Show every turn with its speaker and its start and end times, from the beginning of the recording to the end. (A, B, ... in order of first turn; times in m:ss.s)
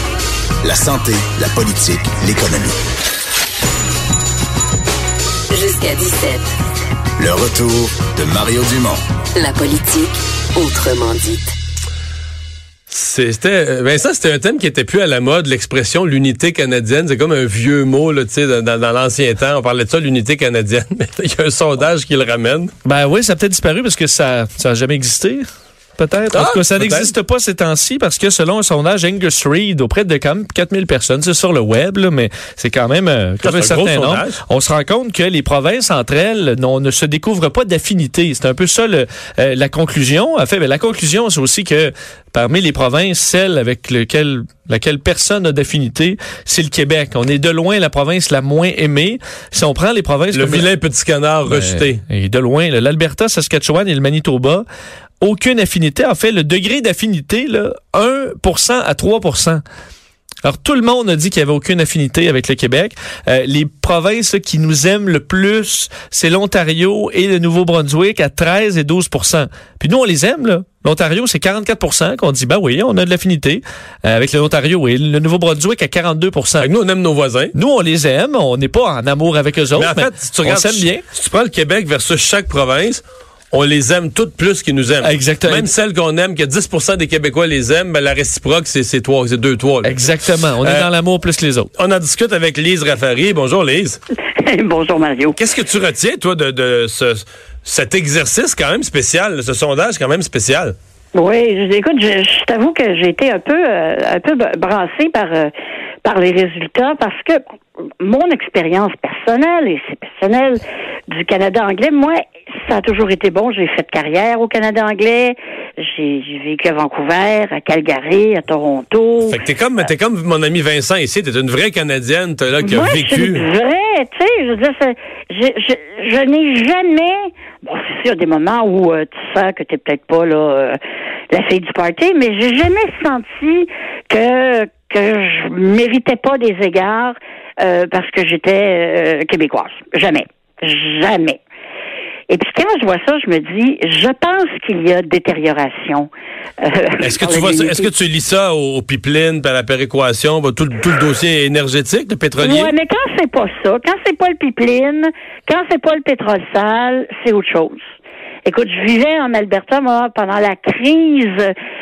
0:00.6-0:02.8 A
0:05.5-0:06.5 B
0:07.2-0:09.0 A
0:09.3-0:11.5 B
0:12.9-0:22.7 C
0:22.8-0:25.5 D
0:26.0-0:50.7 D
0:26.3-0:27.1 C
0:33.4-0:34.4 C
0:50.3-0:52.0 C
0:51.5-0:54.6 D
0:55.2-0:59.6 D
1:00.4-1:16.7 D
1:16.6-1:17.5 C
1:17.5-1:21.0 D
1:19.8-1:30.0 C
1:25.0-1:25.7 D
1:29.8-1:31.7 D
1:30.6-1:30.9 C
1:31.8-1:34.0 C
1:34.4-1:35.4 E
1:35.4-1:40.8 C
1:41.1-1:45.5 E
1:46.0-1:47.4 E
1:48.0-1:59.4 E
1:59.3-2:03.4 C
2:02.6-2:10.8 E
2:11.3-2:21.4 E
2:22.3-2:26.1 E
2:26.6-2:27.9 E
2:27.0-2:32.7 C
2:32.4-2:37.8 E
2:38.4-2:41.5 E